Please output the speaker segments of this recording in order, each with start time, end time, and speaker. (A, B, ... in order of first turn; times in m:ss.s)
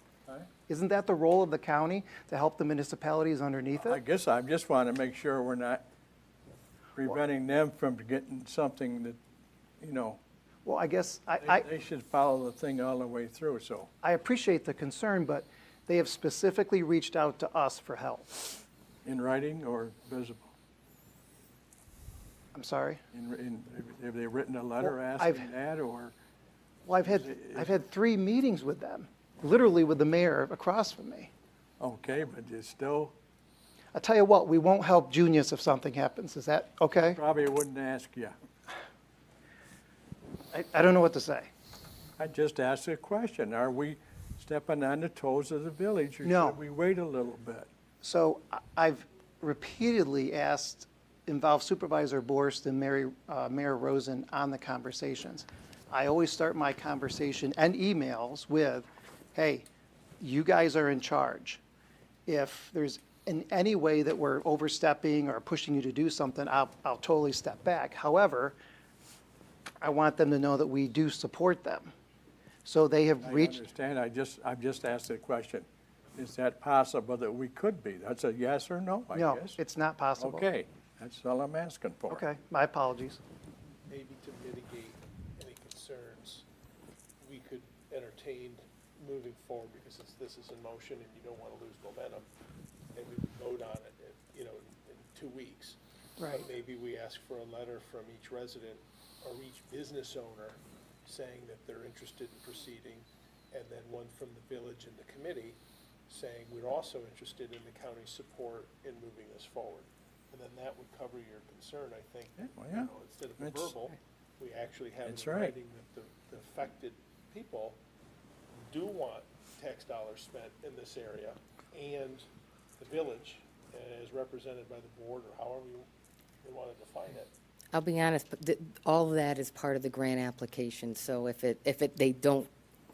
0:00.7-0:04.0 A
0:03.8-0:05.8 B
0:07.0-0:09.2 B
0:09.8-0:10.2 B
0:10.6-0:11.6 A
0:11.4-0:13.9 B
0:14.0-0:18.4 A
0:19.0-0:20.5 B
0:22.5-0:23.0 A
0:23.1-0:26.1 B
0:24.9-0:25.5 A
0:26.8-0:31.3 A
0:27.0-0:27.7 B
0:31.8-0:33.1 B
0:33.9-0:37.2 A
0:37.0-0:38.3 B
0:40.5-0:41.5 A
0:42.2-0:47.7 B
0:46.2-0:46.6 A
0:48.0-0:59.6 A
1:00.2-1:01.6 A
1:02.3-1:08.6 A
1:09.8-1:11.9 A
1:12.6-1:13.6 A
1:13.2-1:19.6 B
1:19.1-1:20.5 A
1:20.2-1:22.2 B
1:22.1-1:23.2 A
1:23.9-1:26.4 C
1:27.2-1:32.2 C
1:32.9-1:45.6 C
1:36.2-1:36.5 A
1:46.1-1:57.8 C
1:52.4-1:53.7 B
1:55.0-1:55.6 B
1:58.5-2:02.2 C
2:02.8-2:05.9 C
2:06.4-2:07.3 C
2:07.7-2:12.5 D